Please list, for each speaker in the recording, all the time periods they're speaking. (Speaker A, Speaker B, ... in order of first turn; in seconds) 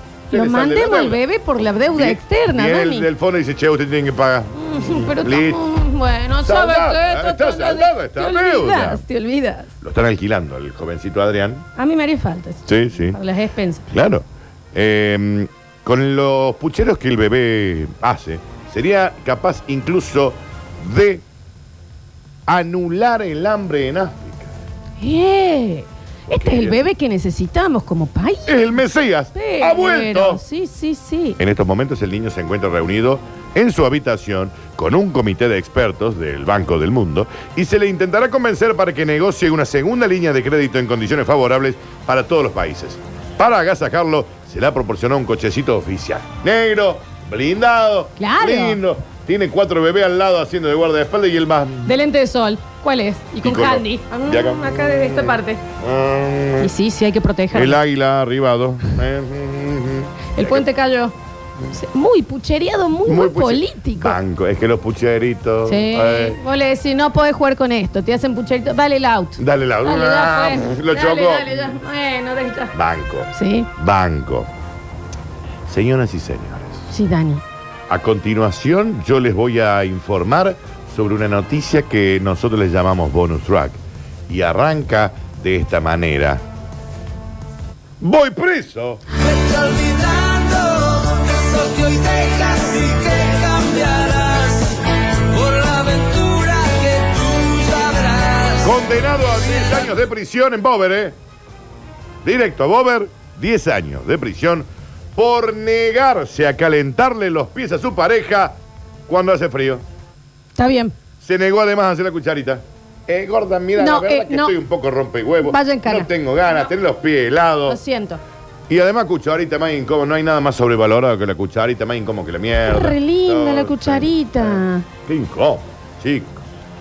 Speaker A: 0.3-1.2, 1.9-5.6, 6.4-9.0, 9.8-11.7, 12.7-13.2, 13.9-21.2, 22.5-24.6, 26.3-26.8, 28.5-30.4, 31.4-52.0, 53.4-56.7, 57.5-60.6, 63.0-66.4, 69.4-71.7, 72.7-74.5, 75.7-76.8, 77.9-86.4, 88.0-89.0, 98.6-101.2, 102.2-109.8, 111.2-117.8, 118.7-126.4
Speaker B: 0.3-3.1, 4.5-9.7, 11.8-13.9, 25.0-28.8, 29.3-31.4, 48.2-48.8, 51.8-55.6, 56.6-57.8, 60.3-61.1, 61.7-64.2, 65.7-72.7, 73.3-73.7, 76.9-77.4, 110.6-110.9, 113.8-114.5, 115.4-116.1, 117.7-118.2, 122.6-124.8
Speaker C: 89.4-90.8, 91.7-94.3, 96.1-96.8, 97.4-97.9